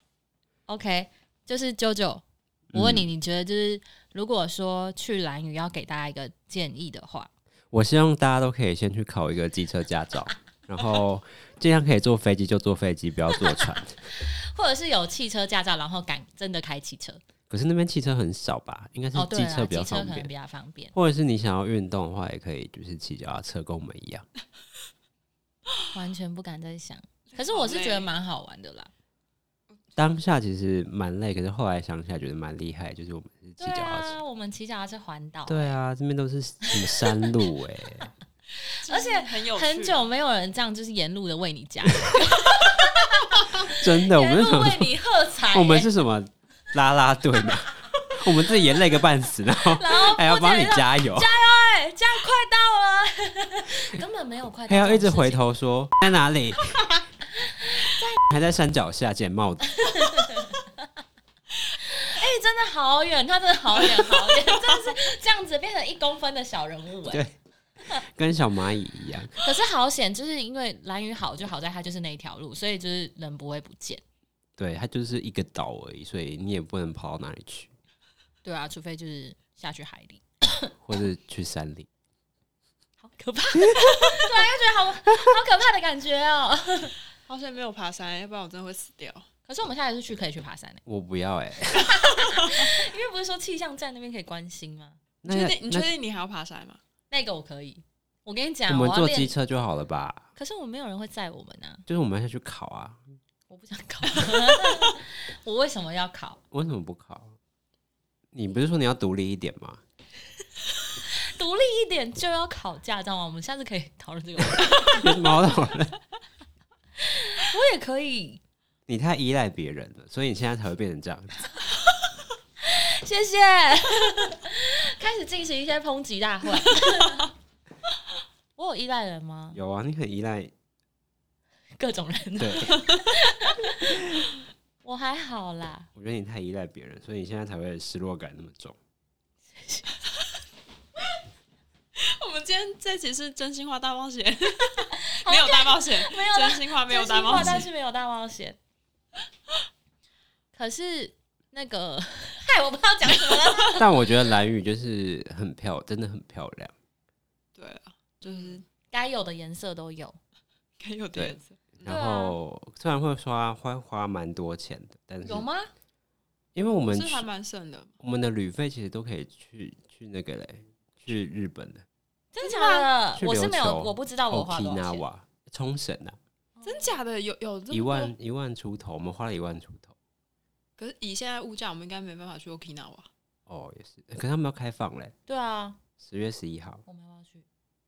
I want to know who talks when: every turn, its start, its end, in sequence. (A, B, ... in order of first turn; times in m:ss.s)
0:00.7-0:07.3 A
0:02.7-0:03.1 B
0:07.7-0:14.0 B
0:14.5-0:17.2 A
0:17.5-0:20.3 B
0:19.1-0:20.9 A
0:20.9-0:24.2 B
0:25.9-0:28.9 A
0:27.3-0:28.1 C
0:30.0-0:34.2 B
0:33.6-0:35.8 A
0:35.5-0:38.1 B
0:36.6-0:37.3 A
0:38.7-0:40.1 C
0:38.8-0:45.9 A
0:42.2-0:42.7 C
0:43.6-0:44.9 B
0:45.5-0:51.3 B
0:49.6-0:55.4 A
0:54.7-0:56.8 B
0:56.9-0:58.2 A
0:58.3-0:59.8 B
0:59.8-1:00.6 A
1:01.8-1:07.2 A
1:03.9-1:04.4 C
1:07.1-1:07.3 B
1:07.9-1:09.4 B
1:09.4-1:14.0 A
1:14.6-1:17.7 B
1:18.4-1:20.7 A
1:20.8-1:21.9 B
1:23.0-1:27.0 A
1:27.3-1:29.2 C
1:29.5-1:30.8 A
1:30.9-1:32.0 B
1:31.7-1:35.0 A
1:35.2-1:35.9 B
1:35.3-1:36.8 C
1:37.1-1:39.3 A
1:38.7-1:40.2 B
1:40.4-1:41.8 A
1:41.9-1:43.0 B
1:43.5-1:46.4 A
1:46.5-1:47.4 B
1:48.3-1:49.8 B
1:50.9-1:55.4 A
1:54.6-1:56.0 B
1:57.0-1:58.4 A
1:58.9-2:01.4 B
2:02.6-2:07.3 A
2:08.6-2:09.6 A
2:09.5-2:10.5 B
2:11.8-2:14.1 A
2:12.4-2:12.8 B
2:14.8-2:15.9 A
2:16.0-2:18.8 B
2:22.0-2:27.7 C
2:25.2-2:28.6 A
2:27.3-2:27.6 B
2:30.5-2:33.8 A
2:33.7-2:36.7 B
2:37.6-2:38.6 C
2:38.3-2:40.2 A
2:40.8-2:41.8 C
2:41.1-2:45.5 B
2:41.8-2:42.4 A
2:45.2-2:45.7 A
2:46.6-2:47.3 B
2:46.6-2:47.9 C
2:48.0-2:51.8 B
2:52.3-2:55.0 A
2:52.4-2:52.9 C
2:53.2-2:56.2 B
2:56.6-2:57.0 A
2:56.6-2:58.1 C
2:57.7-2:59.9 B
3:00.8-3:03.1 C
3:03.5-3:05.1 B
3:05.3-3:05.8 A
3:06.0-3:06.8 B
3:06.9-3:07.4 A